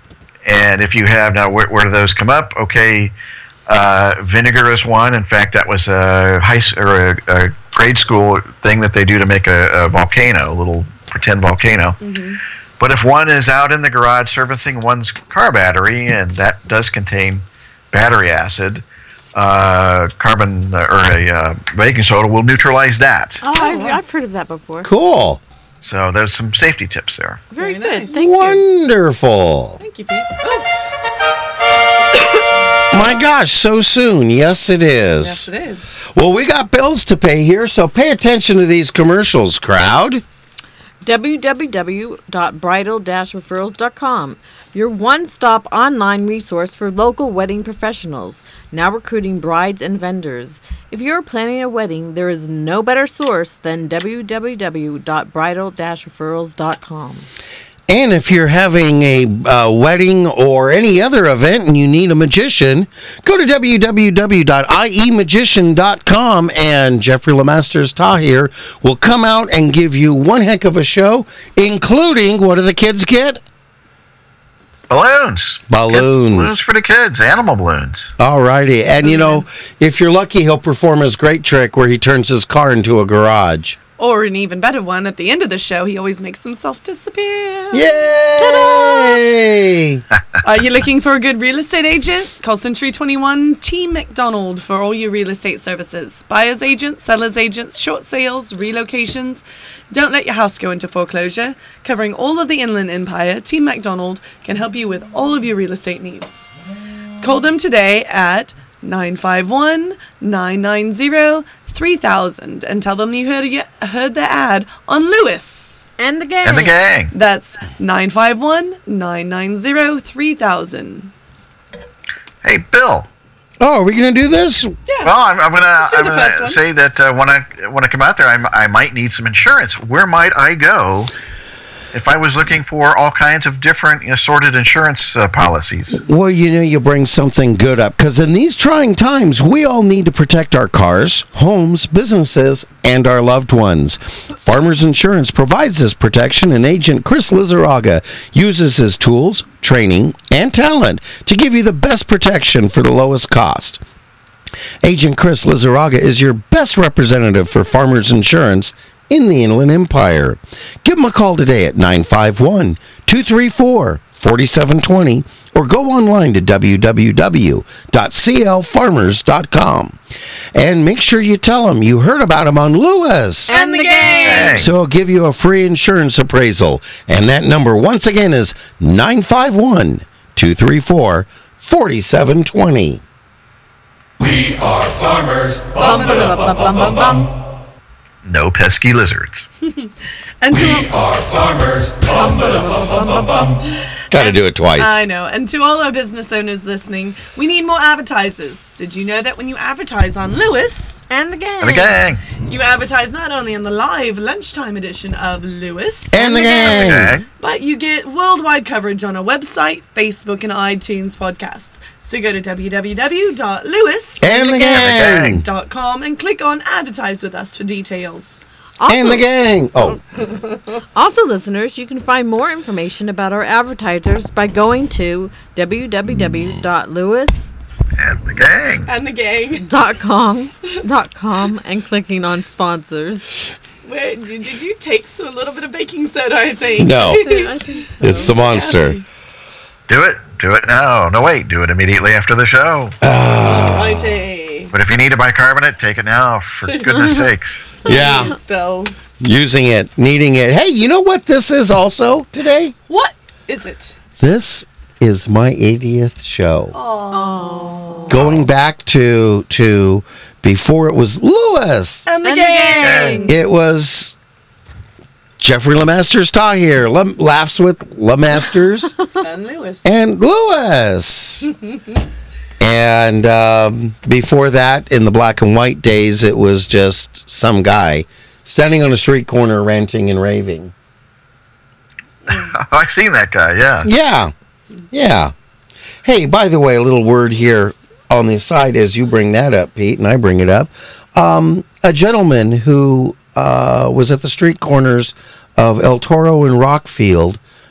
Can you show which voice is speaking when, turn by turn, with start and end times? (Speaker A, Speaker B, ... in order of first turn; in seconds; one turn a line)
Speaker A: 0.5-3.1
Speaker A: 3.7-12.0
Speaker B: 12.0-12.4
Speaker A: 12.8-23.4
Speaker C: 23.4-24.9
Speaker B: 23.6-24.0
Speaker D: 24.8-25.4
Speaker A: 25.8-27.4
Speaker C: 27.5-28.6
Speaker B: 27.6-28.3
Speaker D: 28.1-29.8
Speaker B: 29.8-30.7
Speaker D: 32.9-35.5
Speaker B: 35.2-35.9
Speaker D: 36.1-40.2
Speaker C: 41.0-57.3
Speaker D: 57.9-73.4
Speaker A: 74.9-78.1
Speaker D: 75.7-76.6
Speaker D: 78.2-83.8
Speaker B: 79.0-79.4
Speaker B: 84.0-89.0
Speaker D: 87.7-90.0
Speaker B: 90.4-106.5
Speaker B: 107.2-115.8
Speaker C: 116.0-116.8
Speaker A: 116.4-117.1
Speaker B: 117.1-121.1
Speaker A: 122.4-123.1
Speaker D: 123.6-124.8
Speaker A: 125.0-131.1
Speaker B: 125.8-126.6
Speaker A: 131.9-136.0
Speaker D: 135.9-153.8
Speaker D: 154.8-170.0
Speaker D: 170.5-173.5
Speaker B: 173.5-174.6
Speaker C: 173.5-174.7
Speaker A: 174.2-174.7
Speaker D: 174.5-183.0
Speaker E: 184.2-185.9
Speaker C: 185.8-187.3
Speaker B: 185.8-186.3
Speaker A: 188.2-189.5
Speaker B: 189.6-190.9
Speaker E: 190.7-192.8
Speaker B: 192.2-193.5
Speaker B: 194.1-201.0
Speaker D: 194.1-195.0
Speaker C: 201.1-202.0
Speaker A: 201.6-202.2
Speaker B: 202.4-218.4
Speaker D: 206.1-207.2
Speaker C: 206.4-206.6
Speaker A: 206.6-207.2
Speaker D: 214.2-215.4
Speaker A: 214.6-215.4
Speaker C: 218.8-219.3
Speaker D: 218.9-220.0
Speaker B: 220.2-220.7
Speaker C: 220.9-227.5
Speaker A: 228.0-228.9
Speaker B: 228.9-229.7
Speaker C: 229.5-233.3
Speaker B: 233.8-237.6
Speaker D: 236.8-237.3
Speaker C: 237.2-238.4
Speaker D: 238.0-239.0
Speaker B: 238.1-239.0
Speaker A: 239.9-243.0
Speaker D: 243.0-244.2
Speaker B: 243.4-244.7
Speaker A: 244.7-247.7
Speaker B: 246.7-247.0
Speaker B: 247.8-248.9
Speaker D: 247.8-248.3
Speaker C: 247.9-248.3
Speaker D: 249.2-252.8
Speaker B: 252.9-254.0
Speaker D: 254.2-256.8
Speaker B: 256.7-258.2
Speaker C: 257.1-258.2
Speaker D: 258.1-262.1
Speaker A: 258.1-258.5
Speaker B: 262.1-263.3
Speaker C: 262.2-263.4
Speaker A: 262.8-263.2
Speaker D: 263.3-264.2
Speaker D: 265.4-268.9
Speaker B: 269.2-269.9
Speaker D: 269.8-271.5
Speaker D: 272.6-280.7
Speaker A: 282.3-283.9
Speaker D: 283.8-284.3
Speaker D: 284.9-285.3
Speaker D: 286.0-297.4